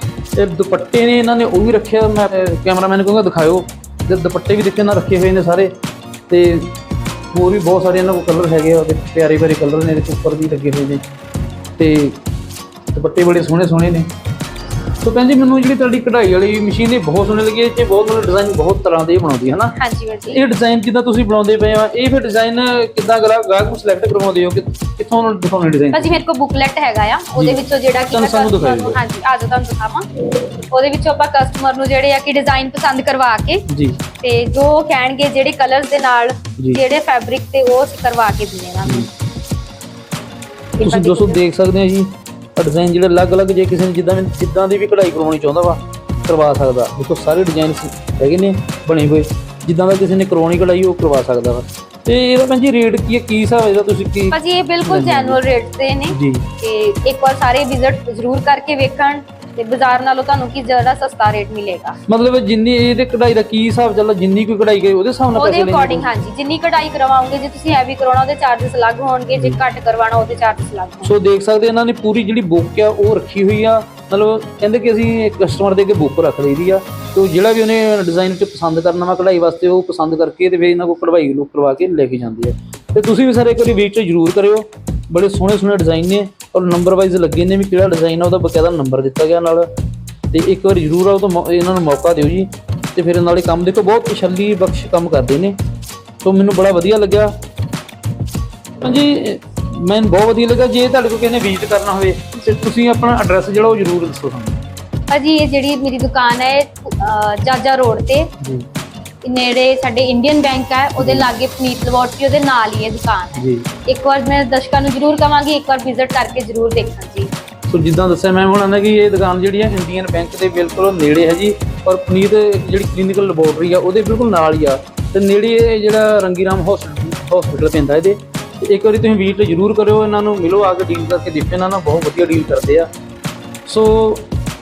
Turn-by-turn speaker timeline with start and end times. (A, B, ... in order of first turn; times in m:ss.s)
0:00.4-0:05.7 A
0:06.3-0:06.7 A
0:07.3-0:11.0 A
0:11.8-0:12.2 A
0:12.9-0:14.1 A
0:15.0-0:19.7 A
0:19.8-0:20.4 B
0:20.3-0:26.2 A
0:25.9-0:33.6 B
0:27.3-0:29.0 A
0:33.7-0:34.0 A
0:34.2-0:39.1 B
0:40.8-0:41.4 B
0:40.8-0:55.4 A
0:54.3-1:02.0 B
0:56.1-0:56.4 A
1:02.1-1:06.1 A
1:05.3-1:11.1 B
1:11.0-1:29.7 A
1:30.3-1:35.6 A
1:36.2-1:37.3 A
1:38.8-1:44.6 A
1:45.1-1:48.3 B
1:48.4-1:48.6 A
1:49.2-1:57.3 B
1:51.0-1:51.3 A
1:53.4-1:53.6 A
1:57.7-2:12.9 A
2:13.6-2:14.3 A